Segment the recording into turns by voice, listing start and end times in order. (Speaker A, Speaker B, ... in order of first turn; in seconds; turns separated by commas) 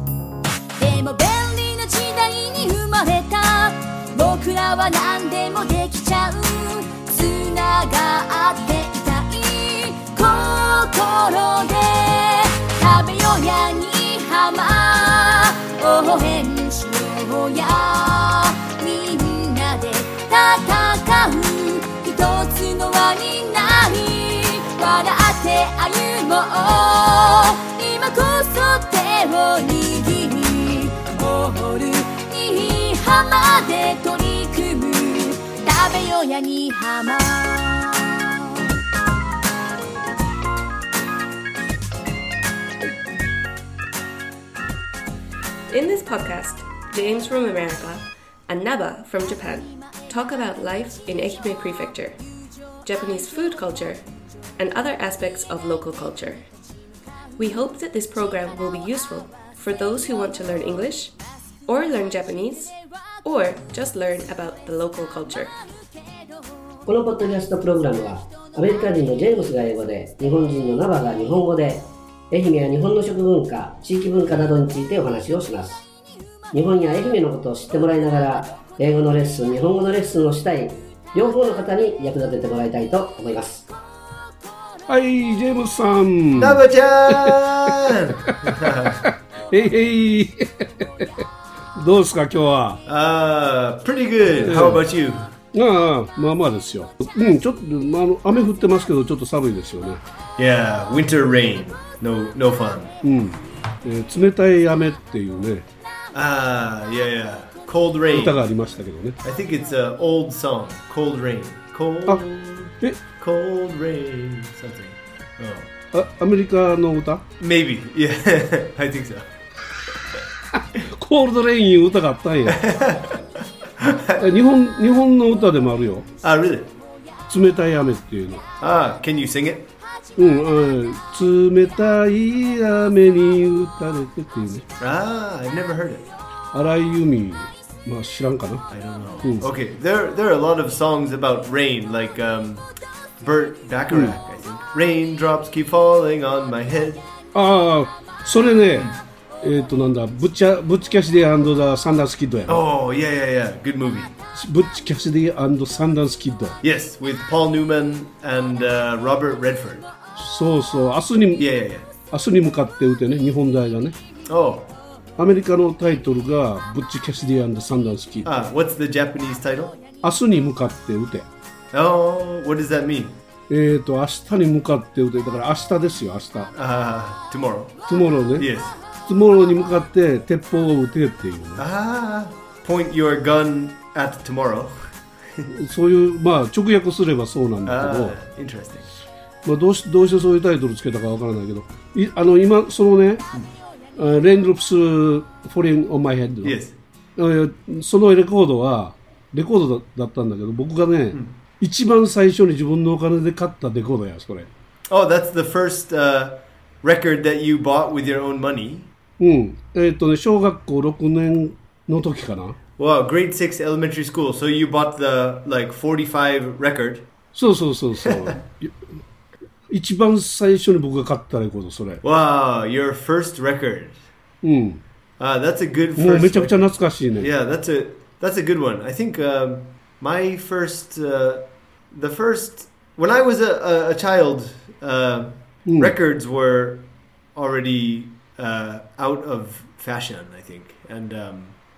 Speaker A: 0.8-38.6, Speaker B: 45.7-52.2, Speaker B: 52.8-54.0, Speaker B: 54.6-56.4, Speaker B: 57.4-61.1, Speaker B: 61.7-65.5, Speaker C: 66.9-75.8, Speaker C: 76.5-83.7, Speaker D: 84.9-91.2, Speaker E: 86.3-89.0, Speaker D: 91.8-92.8, Speaker E: 92.8-95.3, Speaker D: 94.3-94.8, Speaker D: 95.5-100.0, Speaker E: 100.4-102.9, Speaker D: 103.0-105.7, Speaker E: 106.1-108.4, Speaker D: 108.1-109.2, Speaker E: 109.2-115.7, Speaker D: 115.9-117.2, Speaker E: 117.4-119.3, Speaker D: 120.5-122.7, Speaker E: 122.5-124.2, Speaker D: 124.2-126.1, Speaker E: 126.2-126.7, Speaker D: 127.3-128.4, Speaker E: 128.6-129.7, Speaker D: 130.2-134.6, Speaker E: 134.8-136.1, Speaker D: 136.5-138.7, Speaker E: 138.7-142.6, Speaker E: 143.2-147.1, Speaker D: 143.9-144.2, Speaker D: 147.3-152.6, Speaker E: 152.5-154.2, Speaker D: 154.3-156.6, Speaker E: 156.6-159.9, Speaker D: 160.2-161.5, Speaker E: 161.4-161.9, Speaker D: 162.1-163.9, Speaker E: 164.3-164.7, Speaker D: 165.2-168.3, Speaker E: 168.2-169.8, Speaker D: 170.0-171.3, Speaker E: 171.7-173.2, Speaker D: 173.5-176.5, Speaker E: 176.5-177.7, Speaker D: 177.9-178.5, Speaker E: 178.3-178.8, Speaker D: 179.1-181.6, Speaker E: 181.6-185.4, Speaker D: 185.4-188.2, Speaker E: 187.6-188.9, Speaker D: 189.4-193.2, Speaker D: 193.9-196.6, Speaker E: 196.4-196.8, Speaker D: 197.2-204.5, Speaker E: 204.9-208.9, Speaker D: 209.2-212.6, Speaker E: 212.8-217.1, Speaker D: 217.3-218.7, Speaker E: 218.0-218.3, Speaker D: 219.7-222.0, Speaker E: 222.0-224.0, Speaker D: 224.4-224.8, Speaker E: 225.2-241.6, Speaker D: 226.0-227.3, Speaker D: 235.7-235.9